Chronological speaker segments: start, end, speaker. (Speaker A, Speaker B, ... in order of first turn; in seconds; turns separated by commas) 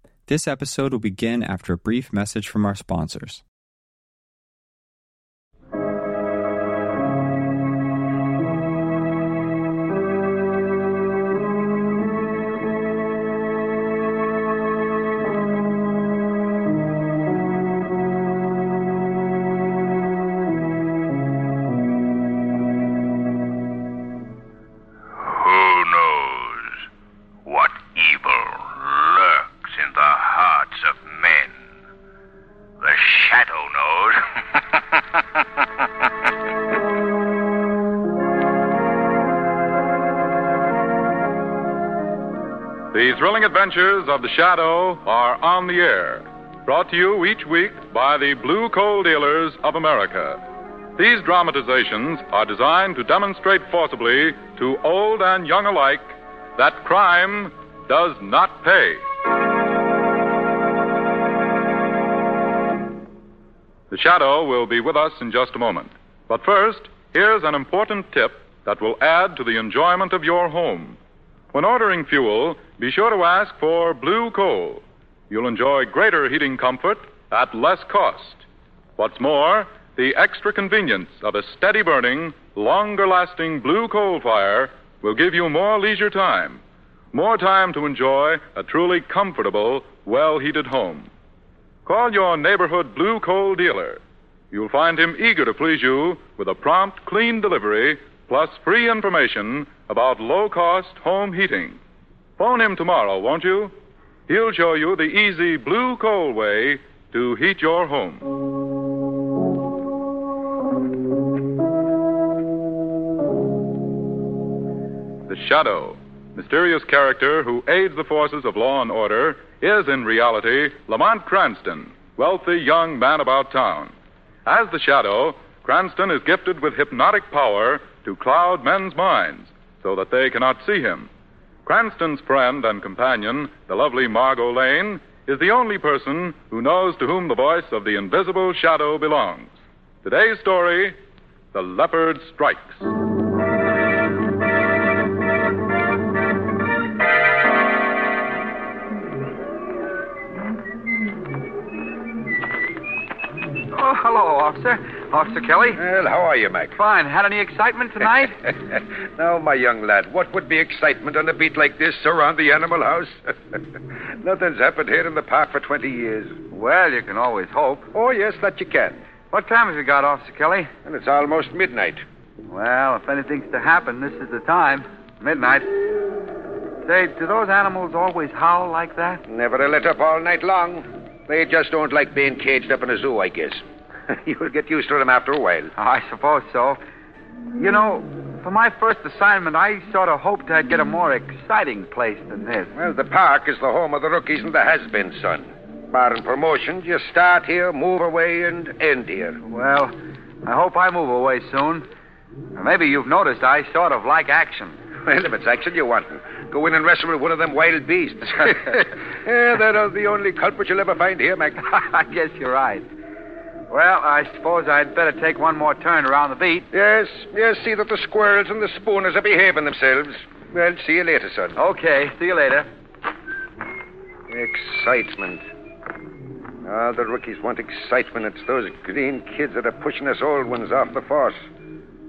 Speaker A: 0.3-3.4, Speaker B: 25.1-26.9, Speaker B: 27.4-31.6, Speaker B: 32.8-35.0, Speaker C: 42.9-50.4, Speaker C: 51.0-59.0, Speaker C: 63.9-71.0, Speaker C: 71.5-78.5, Speaker C: 79.0-86.6, Speaker C: 87.1-91.1, Speaker C: 91.8-94.0, Speaker C: 94.5-101.8, Speaker C: 102.4-103.7, Speaker C: 104.3-108.3, Speaker C: 115.3-123.9, Speaker C: 124.5-131.1, Speaker C: 131.7-141.0, Speaker C: 141.5-142.8, Speaker D: 153.7-155.8, Speaker E: 155.8-156.8, Speaker D: 156.8-158.3, Speaker E: 158.7-166.4, Speaker D: 166.5-167.9, Speaker E: 167.9-169.0, Speaker D: 169.3-170.7, Speaker E: 170.8-172.0, Speaker D: 172.5-175.8, Speaker D: 176.8-179.2, Speaker E: 179.3-185.7, Speaker D: 185.8-186.8, Speaker D: 187.6-192.7, Speaker E: 192.8-199.4, Speaker D: 199.4-201.9, Speaker D: 202.6-204.8, Speaker E: 205.0-211.6, Speaker D: 211.6-212.9, Speaker D: 213.7-216.7, Speaker E: 216.7-221.6, Speaker D: 221.6-222.7, Speaker E: 224.3-225.4, Speaker E: 226.7-231.4